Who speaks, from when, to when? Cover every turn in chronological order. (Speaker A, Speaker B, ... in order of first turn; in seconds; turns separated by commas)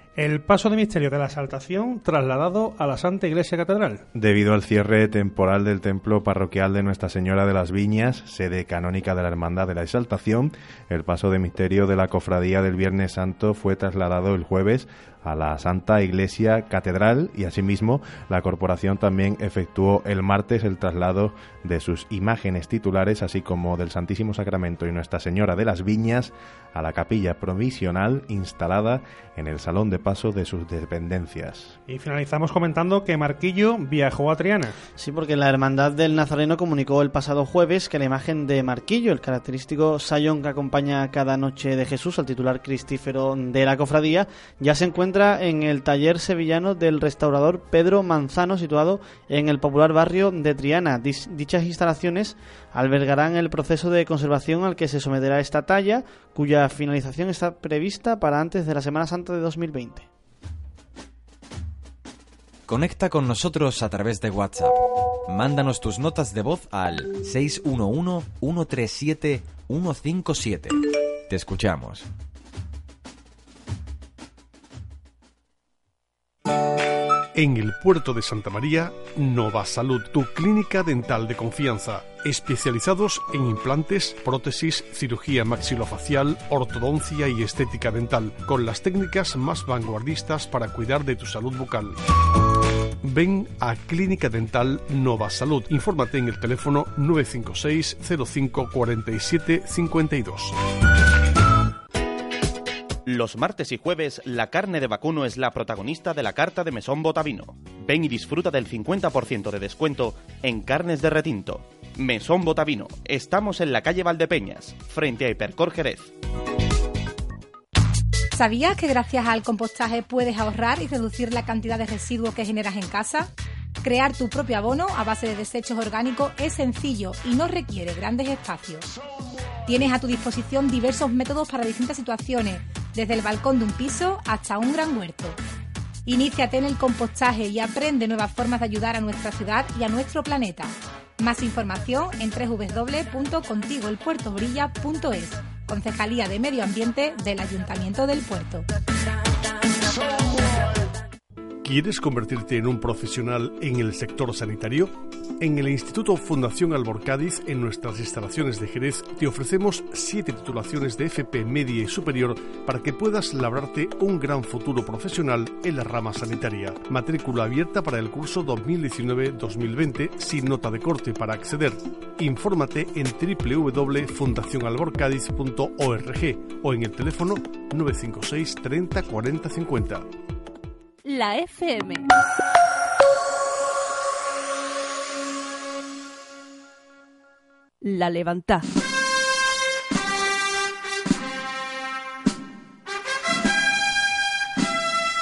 Speaker A: 0.2-4.0, Speaker B: 4.1-31.8, Speaker A: 31.9-34.8, Speaker C: 35.0-60.1, Speaker D: 62.7-72.1, Speaker E: 77.3-92.0, Speaker E: 93.0-100.5, Speaker F: 103.0-116.1, Speaker G: 118.3-123.3, Speaker G: 123.8-128.9, Speaker G: 129.7-135.4, Speaker G: 136.1-148.6, Speaker E: 151.6-180.1, Speaker H: 181.0-182.1, Speaker H: 187.8-188.7